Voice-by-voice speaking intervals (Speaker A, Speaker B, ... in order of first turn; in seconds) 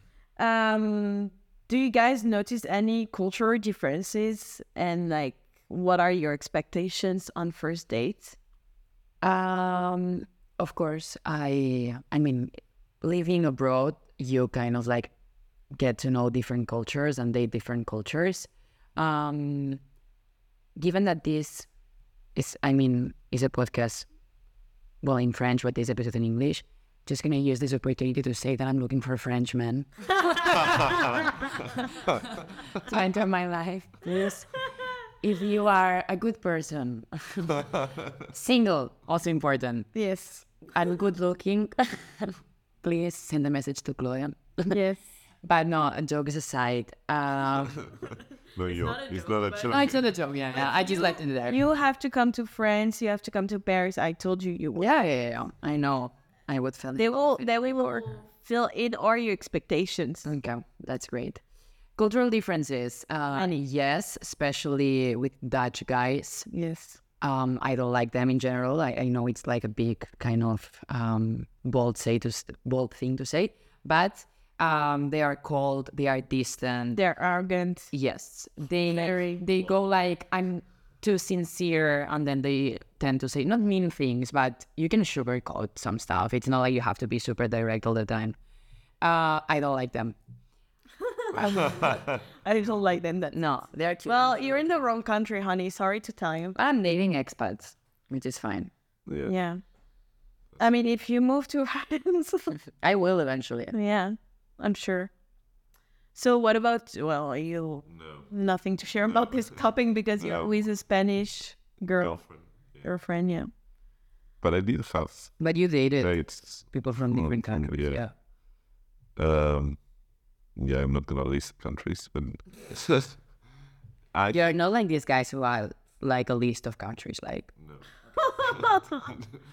Speaker A: 0.4-8.3, 39.9-40.5, 44.7-45.0, 48.8-49.7, 50.6-54.9, 57.0-60.2, 66.5-67.0, 76.9-77.9, 78.9-79.4, 91.5-93.5, 94.0-96.6, 99.2-99.6, 100.6-102.6, 103.7-105.1, 106.1-112.2, 112.8-113.5, 128.2-129.1
Speaker B: 9.2-15.1, 15.7-19.8, 20.8-21.7, 22.3-24.1, 25.0-34.5, 35.2-37.6, 38.3-39.9, 40.7-44.8, 45.4-47.8, 49.7-51.6, 54.8-57.5, 60.2-61.4, 62.0-66.5, 67.2-77.0, 77.9-88.3, 89.0-90.2, 91.3-92.0, 93.3-94.6, 96.5-98.7, 102.8-103.7, 115.4-118.1, 124.3-127.5
Speaker C: 37.5-38.2, 48.5-50.0, 91.5-92.2, 99.0-99.3, 107.9-108.2, 109.1-109.6, 110.2-110.6, 112.0-112.9, 114.4-115.3, 116.0-118.0, 119.2-119.8, 120.6-123.2, 124.1-124.5, 128.4-129.3